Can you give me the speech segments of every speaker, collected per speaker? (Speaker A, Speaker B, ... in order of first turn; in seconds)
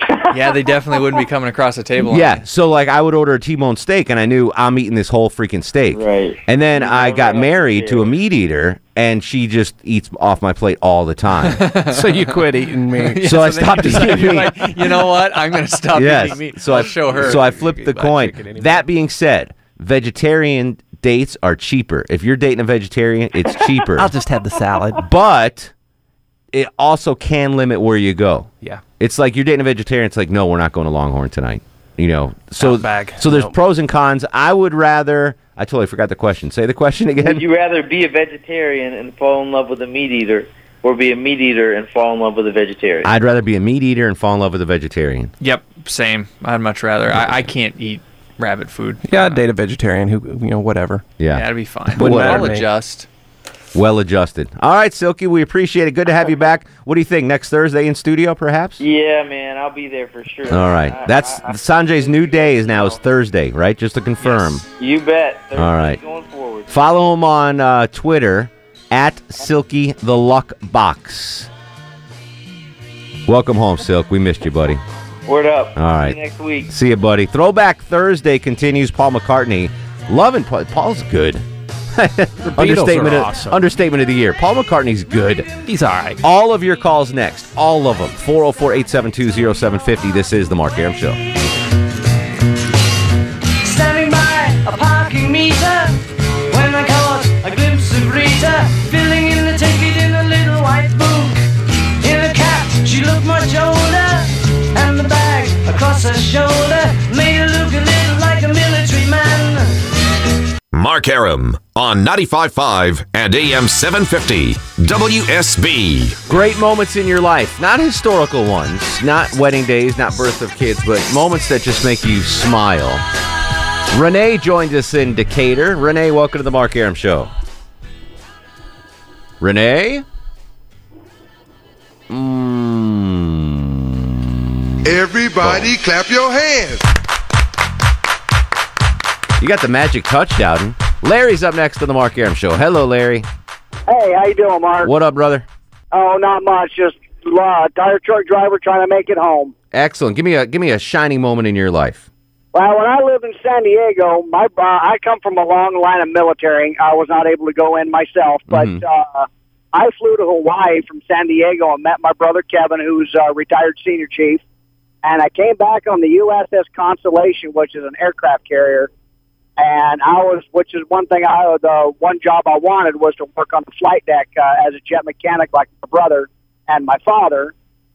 Speaker A: 0.3-2.4, 11.4-17.4, 45.4-49.4, 51.3-53.1, 64.2-64.6
Speaker B: 2.1-11.6, 13.2-14.6, 15.9-24.1, 25.0-25.7, 26.5-37.4, 43.0-45.3, 51.2-52.5, 53.7-58.8, 60.5-64.6, 65.5-66.0, 66.7-71.5, 73.3-74.8, 75.8-81.4, 82.0-85.5, 86.2-91.2, 116.3-123.0, 123.9-127.3, 129.4-130.0, 132.1-134.2, 134.8-135.7, 139.4-143.3, 144.8-145.5, 149.7-152.1, 158.5-158.8
Speaker C: 5.9-8.1, 37.2-43.1, 58.8-63.0, 64.8-66.7, 75.3-76.7
Speaker D: 11.9-14.5, 16.7-18.8, 23.9-25.1, 32.6-33.5, 49.0-51.0, 51.9-52.7, 82.4-83.6, 85.6-86.2
Speaker E: 93.6-96.0, 96.5-101.4, 102.0-109.8
Speaker F: 110.7-116.2
Speaker G: 134.8-136.8
Speaker H: 143.9-144.9, 145.9-149.5, 152.5-164.4, 165.0-168.9, 169.6-177.5